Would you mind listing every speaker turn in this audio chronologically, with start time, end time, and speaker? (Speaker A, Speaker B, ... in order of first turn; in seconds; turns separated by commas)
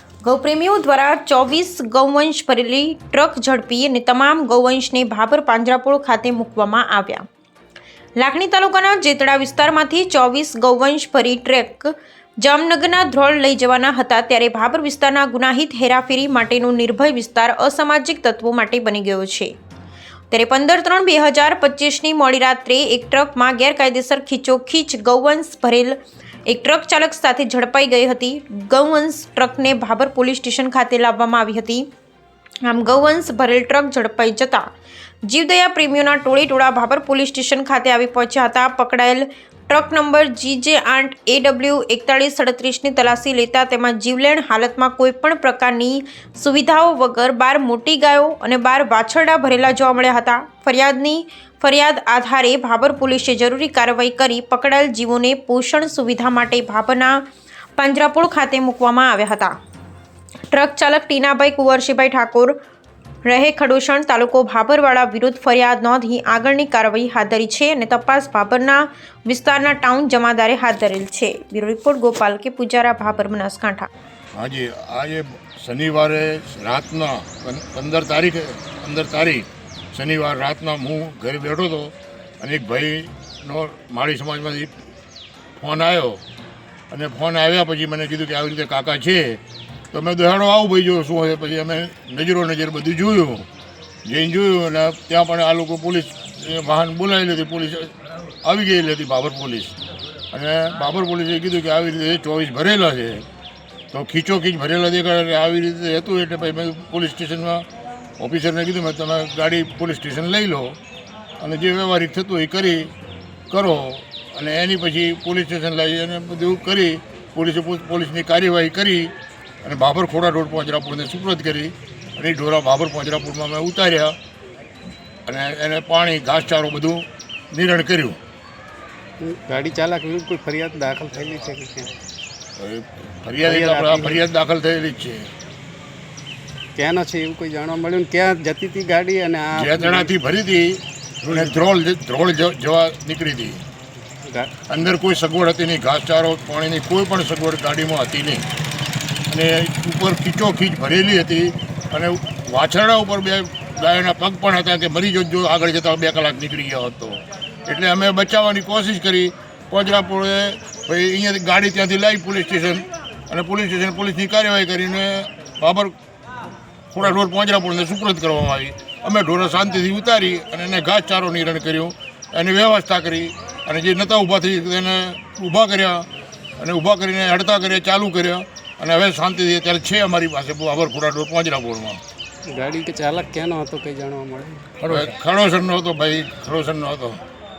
Speaker A: 0.2-7.2, Speaker A: 8.2-11.9, Speaker A: 12.4-19.5, Speaker A: 20.3-25.9, Speaker A: 26.5-31.9, Speaker A: 32.6-34.6, Speaker A: 35.3-57.2, Speaker A: 57.8-59.5, Speaker A: 60.5-62.5, Speaker A: 63.2-73.9, Speaker B: 74.3-84.7, Speaker B: 85.6-86.2, Speaker B: 86.9-93.5, Speaker B: 94.0-99.8, Speaker B: 100.3-103.2, Speaker B: 103.9-107.6, Speaker B: 108.2-110.8, Speaker B: 111.4-112.9, Speaker B: 113.5-119.1, Speaker B: 119.6-124.2, Speaker B: 125.3-128.2, Speaker C: 129.2-131.9, Speaker B: 132.6-135.3, Speaker C: 133.4-134.3, Speaker C: 136.8-140.1, Speaker B: 139.5-143.6, Speaker C: 144.2-144.5, Speaker B: 144.7-148.4, Speaker B: 149.3-165.9, Speaker B: 166.9-176.1, Speaker B: 176.6-182.0, Speaker C: 182.5-184.8, Speaker B: 184.8-187.2